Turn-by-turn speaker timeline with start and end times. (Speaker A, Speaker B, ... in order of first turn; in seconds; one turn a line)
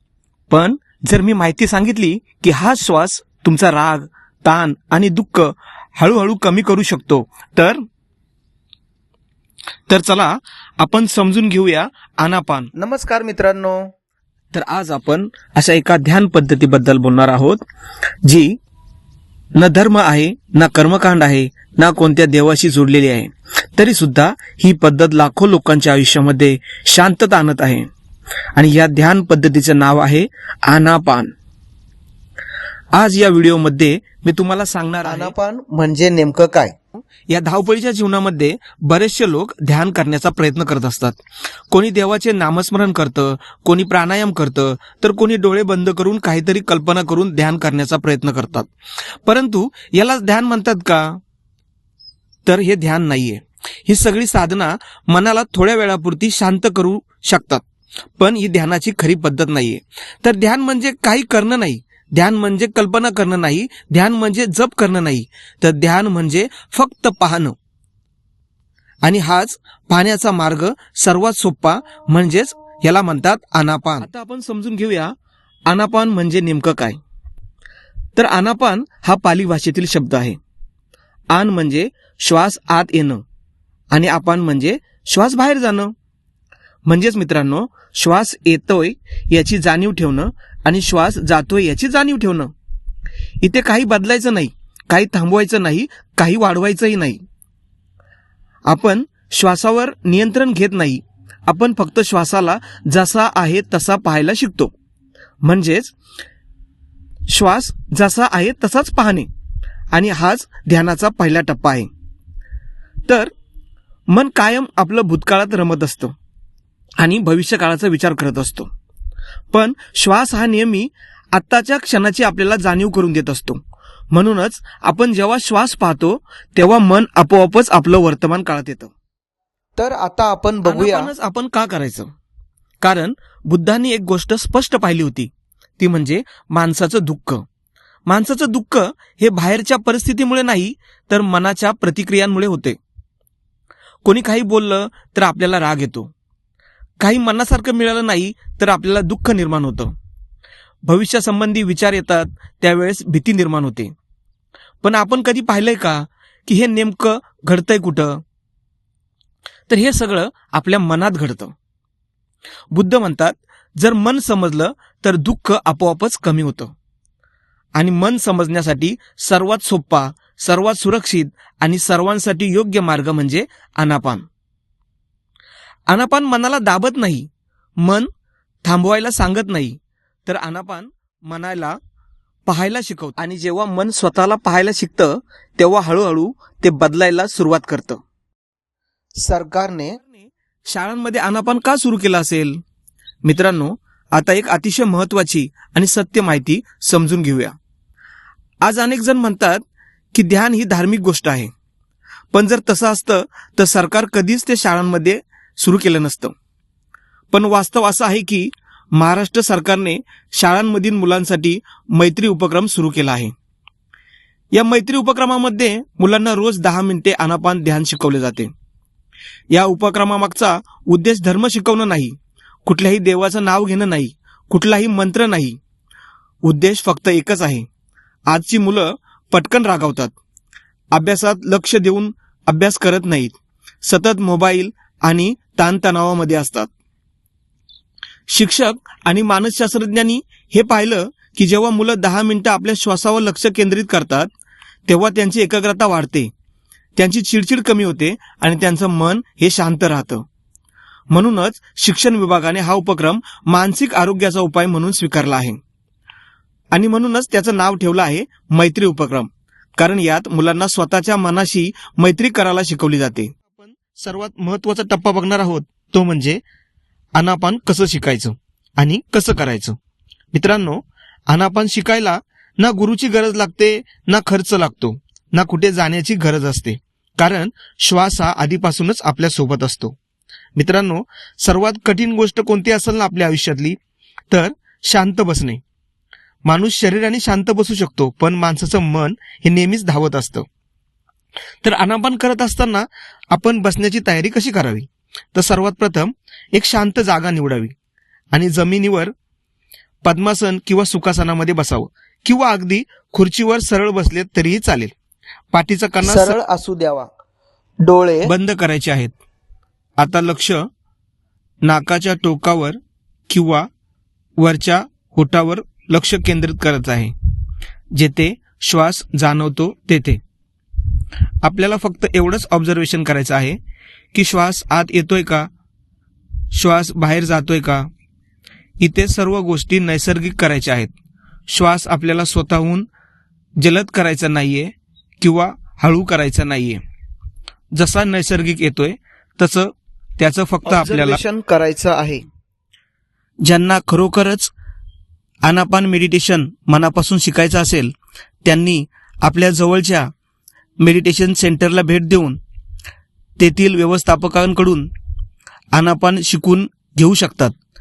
Speaker A: 0.5-7.8
Speaker A: 9.9-12.7
Speaker B: 12.7-13.9
Speaker A: 14.5-17.6
Speaker A: 18.2-18.6
Speaker A: 19.5-27.9
Speaker A: 28.5-31.3
Speaker A: 32.9-35.3
Speaker B: 35.0-36.7
Speaker A: 37.2-48.7
Speaker A: 49.2-51.2
Speaker A: 52.5-57.6
Speaker A: 58.2-67.5
Speaker A: 69.0-75.1
Speaker A: 75.7-77.0
Speaker A: 78.2-80.4
Speaker A: 81.3-83.2
Speaker A: 83.9-85.9
Speaker A: 86.8-92.5
Speaker A: 93.4-97.2
Speaker A: 98.7-104.7
Speaker A: 105.4-105.9
Speaker A: 107.3-109.3
Speaker A: 109.9-111.9
Speaker A: 113.1-113.3
Speaker A: 114.1-116.2
Speaker A: 117.0-118.7
Speaker A: 119.5-123.6
Speaker A: 124.1-128.9
Speaker B: 129.8-131.1
Speaker A: 130.6-132.1
Speaker A: 132.8-137.4
Speaker A: 138.1-142.8
Speaker A: 144.0-146.1
Speaker A: 147.0-149.9
Speaker A: 150.8-153.9
Speaker A: 154.8-158.2
Speaker A: 159.7-161.5
Speaker A: 162.7-166.7
Speaker A: 167.7-174.3
Speaker A: 175.9-177.3
Speaker A: 177.8-178.1
Speaker A: 178.6-181.8
Speaker A: 182.5-188.0
Speaker B: 189.2-189.9
Speaker A: 189.9-192.6
Speaker A: 193.2-197.6
Speaker A: 198.6-201.5
Speaker A: 202.3-206.3
Speaker A: 207.3-213.3
Speaker A: 214.5-218.5
Speaker A: 219.5-225.6
Speaker A: 226.4-227.7
Speaker A: 228.3-230.1
Speaker A: 230.9-236.7
Speaker A: 238.3-244.3
Speaker A: 244.9-246.3
Speaker A: 246.9-250.2
Speaker A: 251.1-255.6
Speaker A: 256.7-266.4
Speaker A: 267.1-269.8
Speaker A: 270.3-279.9
Speaker A: 280.6-283.8
Speaker A: 284.3-285.6
Speaker A: 286.4-290.5
Speaker A: 291.6-297.7
Speaker A: 298.3-299.1
Speaker A: 300.0-304.9
Speaker A: 305.5-306.4
Speaker B: 306.0-307.1
Speaker B: 307.8-308.3
Speaker A: 308.2-309.1
Speaker A: 310.0-310.6
Speaker A: 311.6-313.7
Speaker A: 314.4-317.1
Speaker A: 317.9-320.2
Speaker A: 321.4-323.6
Speaker A: 324.1-325.5
Speaker A: 326.5-327.9
Speaker A: 328.8-330.9
Speaker A: 331.5-332.9
Speaker A: 333.6-336.8
Speaker A: 337.7-341.2
Speaker B: 340.6-342.2
Speaker A: 343.4-344.5
Speaker A: 345.4-347.9
Speaker A: 348.4-350.1
Speaker A: 350.8-352.4
Speaker A: 353.4-354.9
Speaker A: 355.7-357.5